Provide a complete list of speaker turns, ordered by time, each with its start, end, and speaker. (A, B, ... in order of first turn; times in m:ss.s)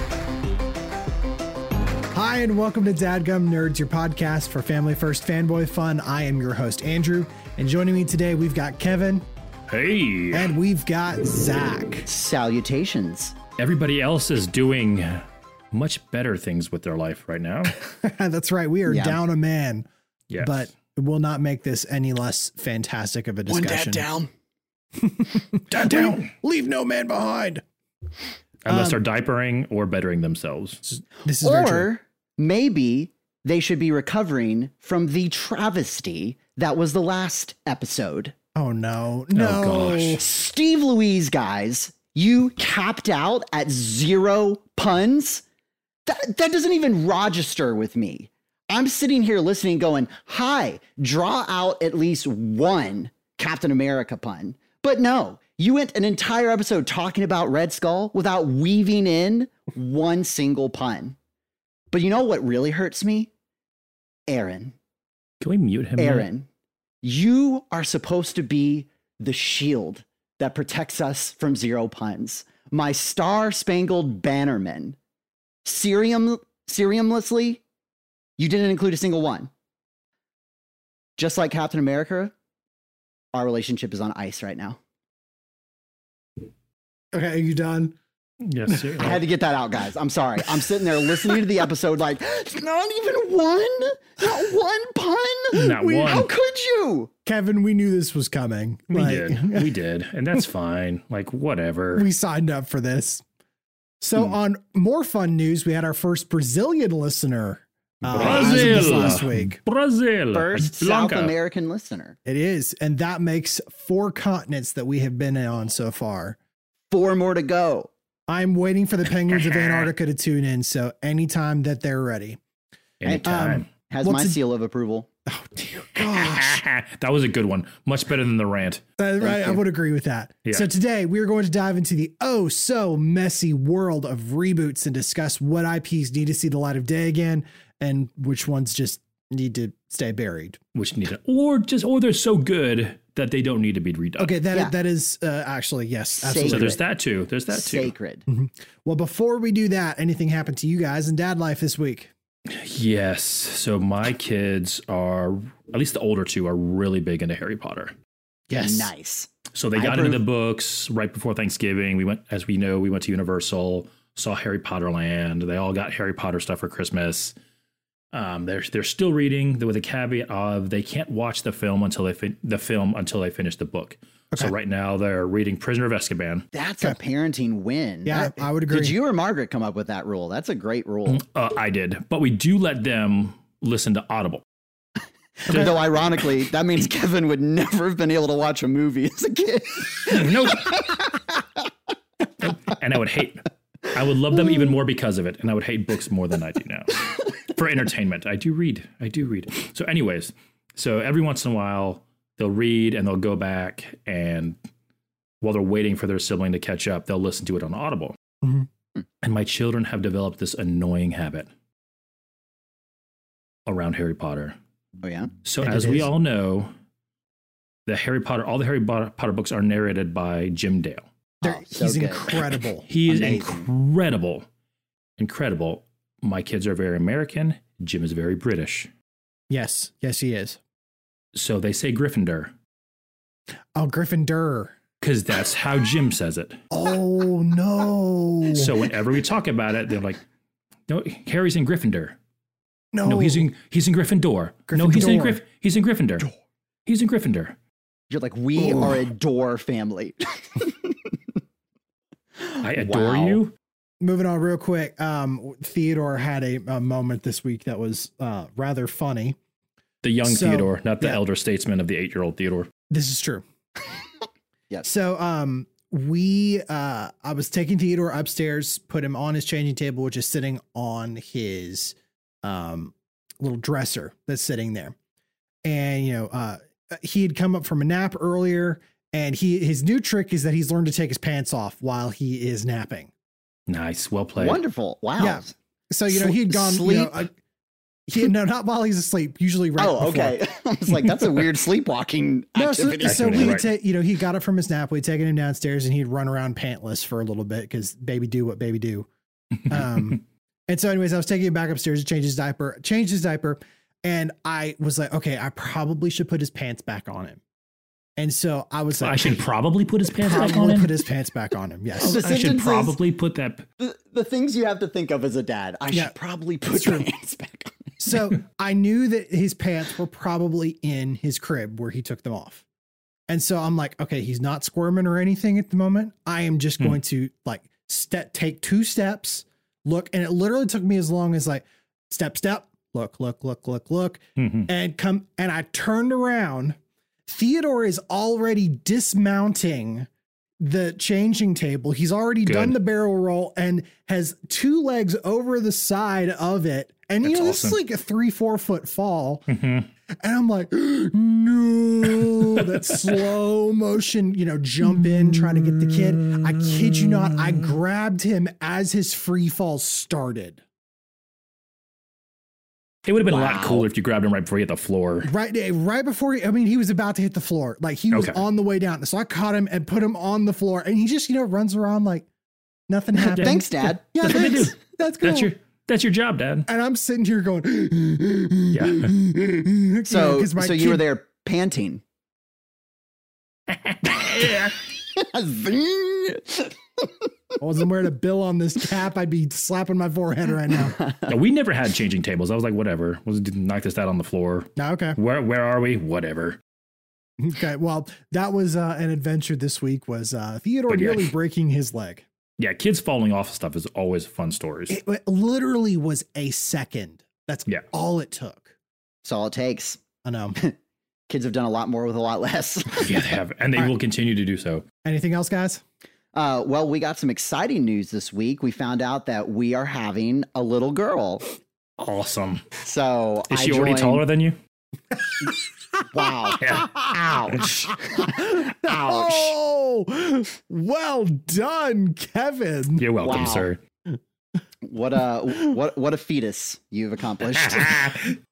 0:02.1-0:09.2 A
0:09.7-0:10.5 B
0:10.3-0:12.1 A
0:12.1-0:13.4 C
0:13.6-0:17.8 B
0:17.7-0:19.9 A
0:18.9-0:19.2 C
0:20.3-0:20.7 B
0:20.4-0:24.1 A
0:23.5-0:24.3 C
0:25.0-0:27.6 A
0:25.7-0:26.3 B
0:28.6-0:30.8 B
0:28.7-0:29.0 A
0:30.9-0:31.9 A
0:31.4-0:38.4 C
0:38.6-0:40.2 A
0:39.3-0:40.2 B
0:40.2-0:45.4 C
0:46.1-1:01.2 C
1:01.9-1:03.3 C
1:04.3-1:04.8 C
1:05.4-1:06.3 B
1:06.0-1:06.5 C
1:07.0-1:15.0 C
1:15.6-1:17.6 C
1:18.4-1:19.5 C
1:21.2-1:22.3 C
1:23.3-1:24.8 C
1:27.1-1:28.0 A
1:28.4-1:29.2 B
1:28.7-1:29.0 A
1:29.0-1:37.1 C
1:35.5-1:36.3 B
1:37.3-1:39.7 A
1:38.9-1:42.1 B
1:42.0-1:43.2 A
1:44.0-1:49.6 A
1:48.1-1:51.3 B
1:48.2-1:49.2 C
1:50.3-1:52.2 C
1:52.2-1:56.4 A
1:56.9-1:57.9 C
1:58.3-2:02.4 A
2:03.0-2:03.7 B
2:03.0-2:05.1 C
2:03.2-2:04.4 A
2:05.3-2:06.6 A
2:05.9-2:08.8 B
2:09.0-2:20.6 A
2:09.2-2:09.6 C
2:20.8-2:24.4 B
2:24.2-2:26.8 A
2:26.2-2:26.8 C
2:26.4-2:27.9 B
2:27.5-2:28.2 C
2:28.3-2:32.1 A
2:32.5-2:37.9 B
2:38.5-2:38.9 A
2:38.6-2:40.2 C
2:39.5-2:47.3 B
2:48.1-2:56.5 B
2:56.5-3:01.2 C
2:58.1-2:59.0 A
3:01.1-3:04.4 B
3:05.4-3:11.1 C
3:10.1-3:10.9 B
3:12.4-3:24.6 B
3:25.4-3:28.2 B
3:28.4-3:28.7 A
3:29.2-3:31.5 B
3:33.7-3:34.6 B
3:35.0-3:35.3 C
3:35.4-3:36.7 B
3:35.6-3:36.1 A
3:37.9-3:41.1 B
3:41.4-3:43.3 A
3:41.4-3:42.4 C
3:42.9-3:44.5 B
3:43.1-3:43.6 C
3:45.2-3:48.9 B
3:49.5-3:50.6 A
3:51.3-3:52.5 B
3:53.8-3:54.8 A
3:55.0-3:56.6 B
3:56.7-3:58.9 A
3:58.5-4:00.2 B
4:00.9-4:02.2 B
4:02.9-4:03.5 A
4:03.0-4:06.3 B
4:04.7-4:05.4 A
4:06.9-4:07.6 B
4:08.1-4:11.0 C
4:08.6-4:09.0 A
4:12.4-4:13.4 C
4:12.6-4:13.5 B
4:14.0-4:19.4 A
4:20.0-4:22.7 B
4:20.2-4:21.2 A
4:22.9-4:23.4 A
4:24.8-4:35.0 A
4:35.6-4:43.1 A
4:43.7-4:44.6 B
4:44.4-4:45.5 C
4:45.2-4:47.3 A
4:46.1-4:47.2 C
4:48.1-4:50.4 A
4:49.8-4:53.6 C
4:52.6-4:59.1 A
4:53.0-4:53.7 B
4:59.7-5:07.4 A
5:08.2-5:09.4 A
5:09.0-5:10.9 B
5:10.1-5:12.2 A
5:12.0-5:13.6 B
5:12.0-5:13.0 C
5:13.8-5:18.0 C
5:16.7-5:17.1 A
5:18.0-5:22.6 A
5:23.3-5:40.1 A
5:34.4-5:34.7 B
5:40.6-5:49.5 A
5:42.4-5:42.8 B
5:47.2-5:47.8 B
5:49.5-5:49.9 B
5:50.2-6:00.6 A
6:03.0-6:05.3 B
6:03.3-6:03.9 C
6:05.2-6:12.3 A
6:08.1-6:08.4 B
6:12.9-6:15.5 A
6:13.2-6:14.1 C
6:13.3-6:16.7 B
6:16.7-6:21.0 A
6:18.7-6:19.1 B
6:20.1-6:22.0 C
6:23.7-6:24.8 B
6:24.4-6:26.7 C
6:27.6-6:31.0 A
6:30.8-6:31.3 C
6:31.3-6:36.6 B
6:34.8-6:35.2 A
6:37.4-6:42.2 A
6:40.9-6:41.3 B
6:42.6-6:45.0 B
6:44.9-6:48.7 A
6:49.2-6:50.0 C
6:50.2-6:50.6 A
6:51.3-6:53.2 C
6:53.0-6:54.8 B
6:55.0-6:55.8 A
6:56.3-7:01.5 C
7:02.0-7:02.6 B
7:02.8-7:04.2 C
7:03.5-7:04.6 B
7:06.1-7:09.6 C
7:06.6-7:06.9 B
7:08.1-7:13.1 A
7:13.0-7:13.8 B
7:13.2-7:13.7 C
7:14.8-7:18.0 C
7:17.5-7:18.4 B